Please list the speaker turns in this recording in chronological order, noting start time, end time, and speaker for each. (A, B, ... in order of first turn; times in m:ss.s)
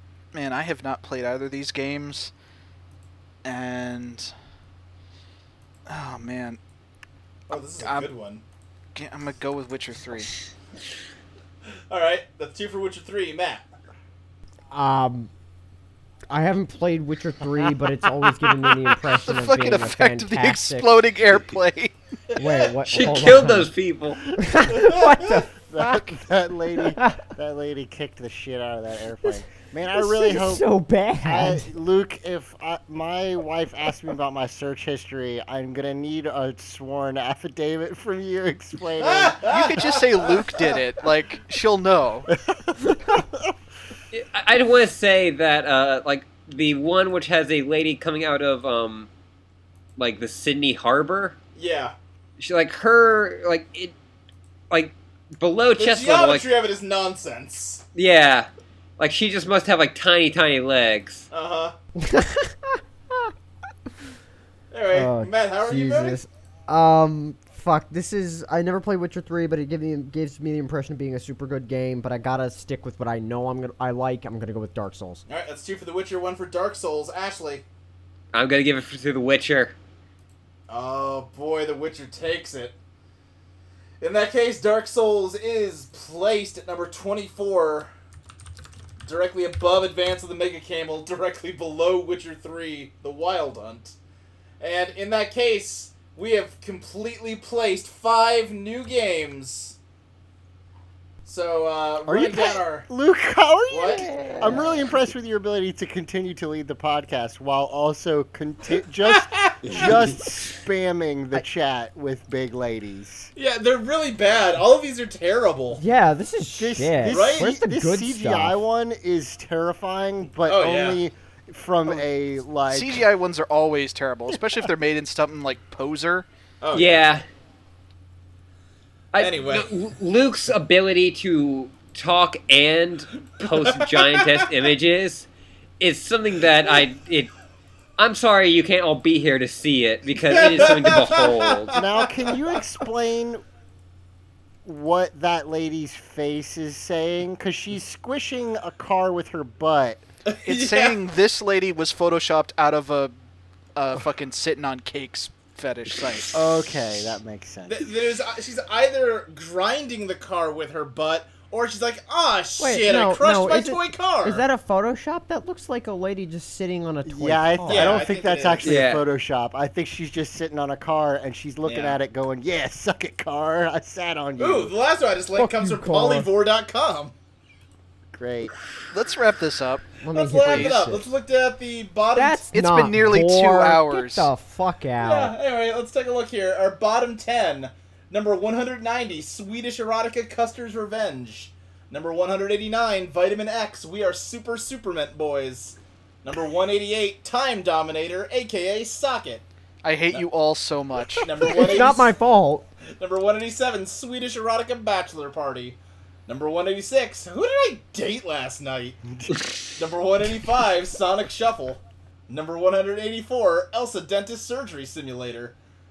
0:00.3-0:02.3 A
0:03.4-0:04.3 A
0:05.9-0:06.6 A
0:07.5-0:08.4 B
0:07.8-0:08.1 A
0:09.0-0:10.3 A
0:11.9-0:13.7 B
0:14.7-0:15.3 C
0:16.3-0:21.0 C
0:18.9-0:22.0 A
0:22.4-0:22.7 B
0:22.4-0:23.7 C
0:22.9-0:24.2 D
0:24.4-0:26.2 C
0:24.7-0:25.1 B
0:25.7-0:30.7 E
0:27.0-0:27.2 C
0:29.9-0:31.7 C
0:31.2-0:39.4 E
0:39.0-0:40.8 B
0:39.4-0:42.3 A
0:42.5-0:43.5 E
0:44.1-0:49.1 D
0:50.0-0:51.4 D
0:51.6-0:52.0 B
0:52.4-0:53.9 D
0:54.7-0:56.5 D
0:55.8-0:57.8 B
0:58.0-1:01.3 D
1:01.3-1:01.8 B
1:02.0-1:03.3 C
1:04.7-1:06.2 B
1:04.9-1:15.2 C
1:15.3-1:17.6 B
1:18.3-1:19.7 D
1:20.7-1:22.7 B
1:24.0-1:27.9 B
1:29.0-1:34.0 B
1:34.6-1:39.8 B
1:41.2-1:42.9 B
1:42.1-1:53.3 E
1:43.7-1:44.2 B
1:49.1-1:50.0 B
1:53.4-1:55.8 B
1:55.7-1:58.6 C
1:56.5-2:03.1 E
1:57.1-1:57.5 B
2:00.5-2:01.0 B
2:02.7-2:06.3 A
2:06.6-2:07.1 B
2:06.7-2:07.2 D
2:09.1-2:15.3 D
2:09.2-2:09.7 B
2:13.6-2:14.3 B
2:15.8-2:17.3 D
2:18.0-2:21.8 D
2:20.1-2:22.4 B
2:21.7-2:23.4 E
2:24.6-2:30.0 E
2:30.3-2:31.0 B
2:30.5-2:33.1 A
2:33.8-2:36.4 A
2:36.3-2:37.9 E
2:37.7-2:44.4 B
2:42.6-2:48.0 C
2:47.1-2:54.7 E
2:47.7-2:48.7 B
2:48.6-2:49.0 D
2:51.6-2:52.0 B
2:54.4-2:57.1 B
2:55.4-2:56.3 C
2:58.2-2:58.5 E
2:58.9-3:00.8 A
3:00.0-3:01.1 C
3:00.1-3:02.5 B
3:02.2-3:05.3 C
3:02.5-3:04.3 A
3:05.0-3:19.4 B
3:19.8-3:21.5 A
3:21.2-3:22.1 B
3:21.5-3:22.7 C
3:23.0-3:29.0 B
3:29.1-3:29.4 E
3:29.8-3:35.6 B